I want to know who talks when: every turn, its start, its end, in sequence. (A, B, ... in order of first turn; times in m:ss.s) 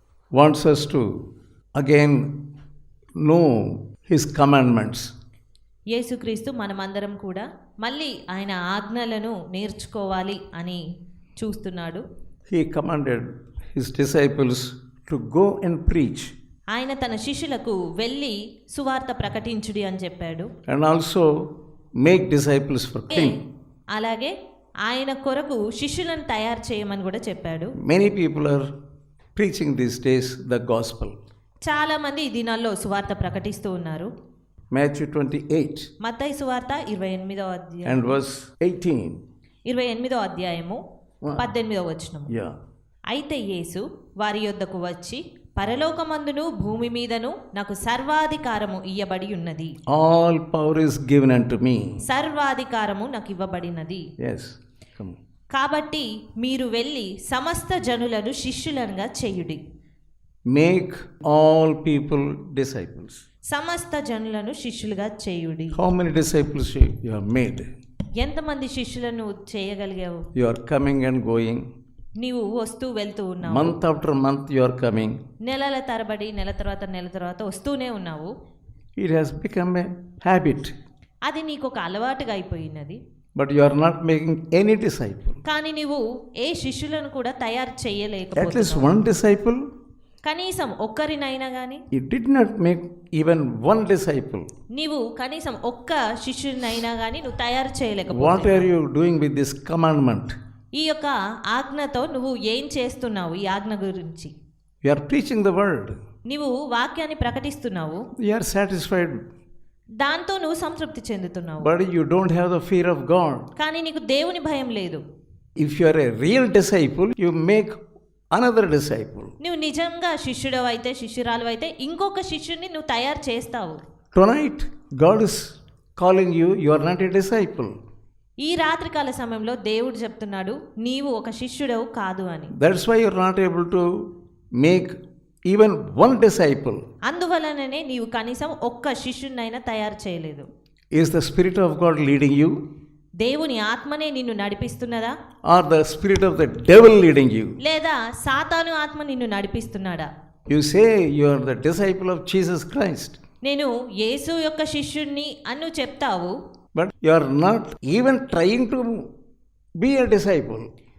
0:00.3-0:02.4 A
0:03.2-0:05.1 A
0:05.9-0:10.8 B
0:11.4-0:12.0 B
0:12.5-0:16.3 A
0:16.7-0:20.5 B
0:20.7-0:21.3 A
0:22.0-0:23.4 A
0:24.0-0:24.3 B
0:24.9-0:27.7 B
0:27.8-0:28.7 A
0:29.4-0:31.2 A
0:31.7-0:34.1 B
0:34.7-0:35.9 A
0:36.0-0:38.1 B
0:37.9-0:39.2 A
0:39.7-0:40.8 B
0:41.2-0:41.5 A
0:41.4-0:42.4 B
0:43.1-0:49.7 B
0:49.9-0:52.0 A
0:52.0-0:54.0 B
0:54.2-0:55.2 A
0:55.5-0:59.6 B
1:00.5-1:03.2 A
1:03.5-1:05.8 B
1:05.7-1:07.7 A
1:08.2-1:10.3 B
1:10.4-1:11.6 A
1:12.2-1:13.8 B
1:13.4-1:15.2 A
1:15.4-1:18.3 B
1:19.0-1:20.7 A
1:21.3-1:23.0 B
1:23.4-1:25.4 A
1:25.5-1:29.0 B
1:28.4-1:29.6 A
1:30.2-1:31.8 B
1:31.9-1:34.5 A
1:34.7-1:38.7 B
1:38.1-1:40.4 A
1:40.8-1:44.3 B
1:44.8-1:46.0 A
1:46.3-1:48.0 B
1:48.2-1:49.2 A
1:50.0-1:51.7 B
1:51.6-1:53.5 A
1:53.6-1:55.0 B
1:55.6-1:57.8 A
1:58.3-1:59.3 A
1:59.4-2:03.8 B
2:04.1-2:07.7 A
2:08.4-2:12.5 B
2:12.6-2:13.9 A
2:14.6-2:15.0 A
2:15.5-2:16.8 A
2:17.1-2:20.5 B
2:20.9-2:22.6 A
2:23.2-2:25.1 B
2:25.5-2:27.6 A
2:27.6-2:30.1 B
2:30.5-2:33.2 A
2:33.4-2:36.3 B
2:36.8-2:39.0 A
2:39.8-2:40.7 A